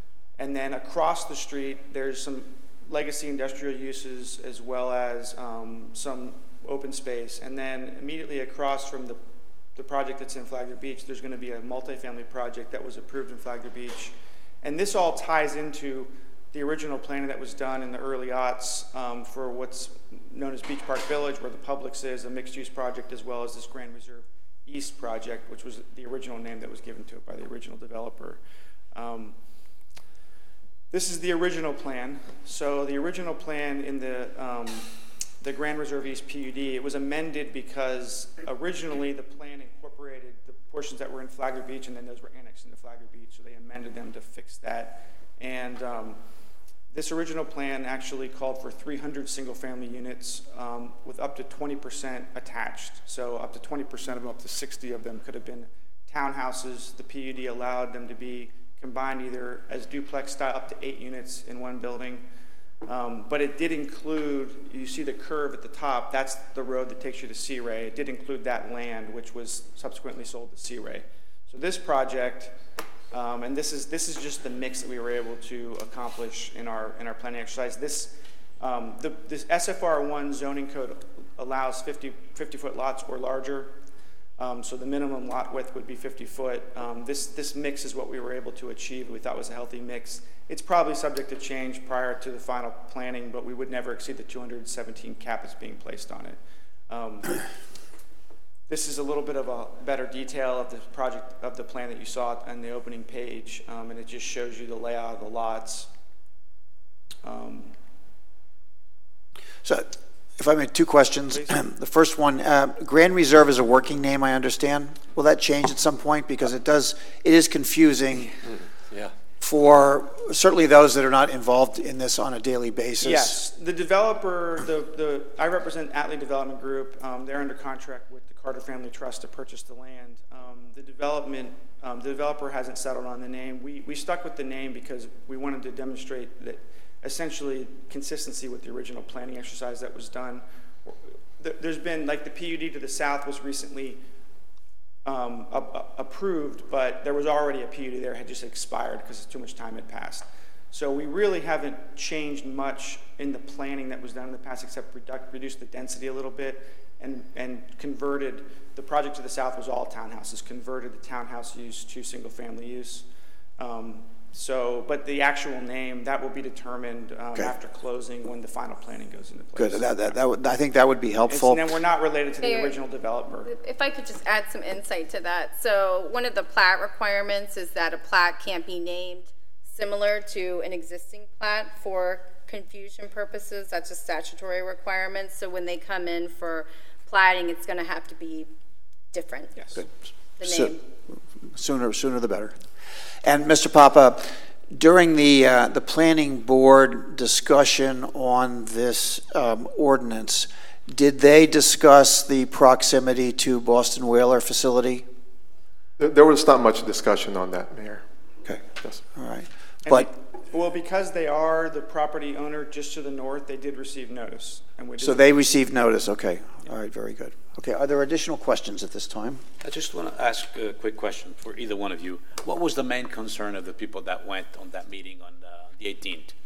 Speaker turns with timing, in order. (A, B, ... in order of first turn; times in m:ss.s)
0:00.4-0:09.2 A
0:09.8-0:28.4 A
0:28.9-0:29.4 A
0:30.9-0:34.9 A
0:35.4-0:46.2 A
0:46.9-1:02.2 A
1:02.8-1:12.6 A
1:13.1-1:23.7 A
1:24.4-1:37.4 A
1:38.7-1:45.9 A
1:47.2-1:47.8 A
1:49.6-1:58.4 B
1:59.4-2:03.4 B
2:03.0-2:24.0 A
2:25.0-2:43.1 A
2:43.6-2:50.2 A
2:49.6-2:51.6 B
2:51.3-2:53.5 A
2:52.4-2:52.8 C
2:53.4-3:08.5 C
3:09.1-3:09.7 C
3:10.4-3:10.8 C
3:10.4-3:12.6 B
3:13.2-3:25.1 B
3:26.0-3:28.0 D
3:28.4-3:30.1 B
3:29.8-3:35.4 A
3:35.0-3:39.4 B
3:39.6-3:46.3 E